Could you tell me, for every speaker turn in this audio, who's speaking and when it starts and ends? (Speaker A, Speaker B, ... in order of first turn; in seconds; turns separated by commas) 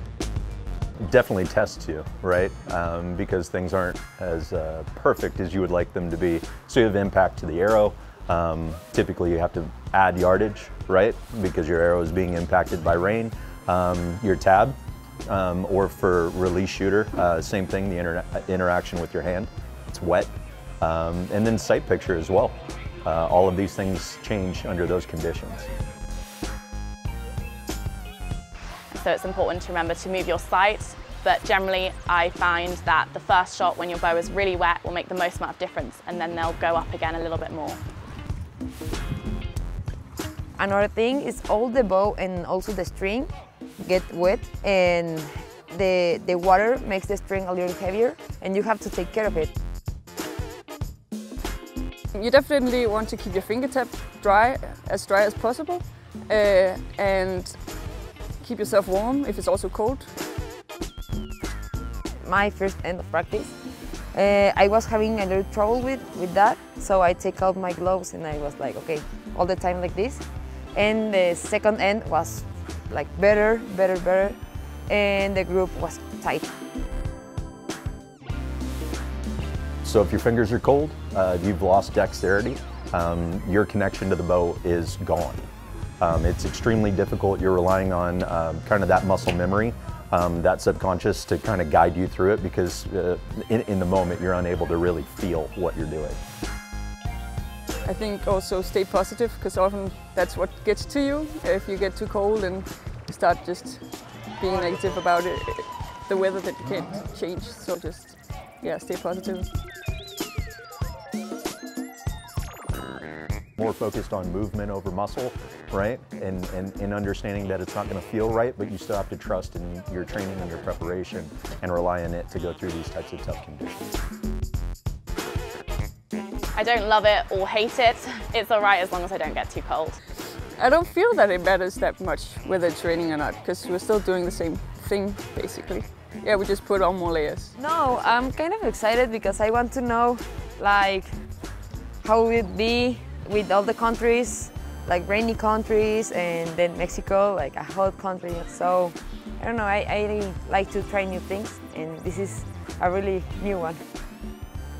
Speaker A: 1.0-25.7, Speaker B: 28.9-37.8, Speaker C: 40.6-49.5, Speaker D: 52.1-57.6, Speaker D: 58.4-60.1, Speaker C: 62.2-63.5, Speaker C: 64.1-70.2, Speaker C: 70.7-76.5, Speaker A: 79.8-85.4, Speaker A: 86.0-96.2, Speaker D: 97.8-109.5, Speaker A: 113.6-123.9, Speaker B: 126.5-130.0, Speaker D: 130.5-137.5, Speaker C: 137.6-141.1, Speaker C: 142.0-153.8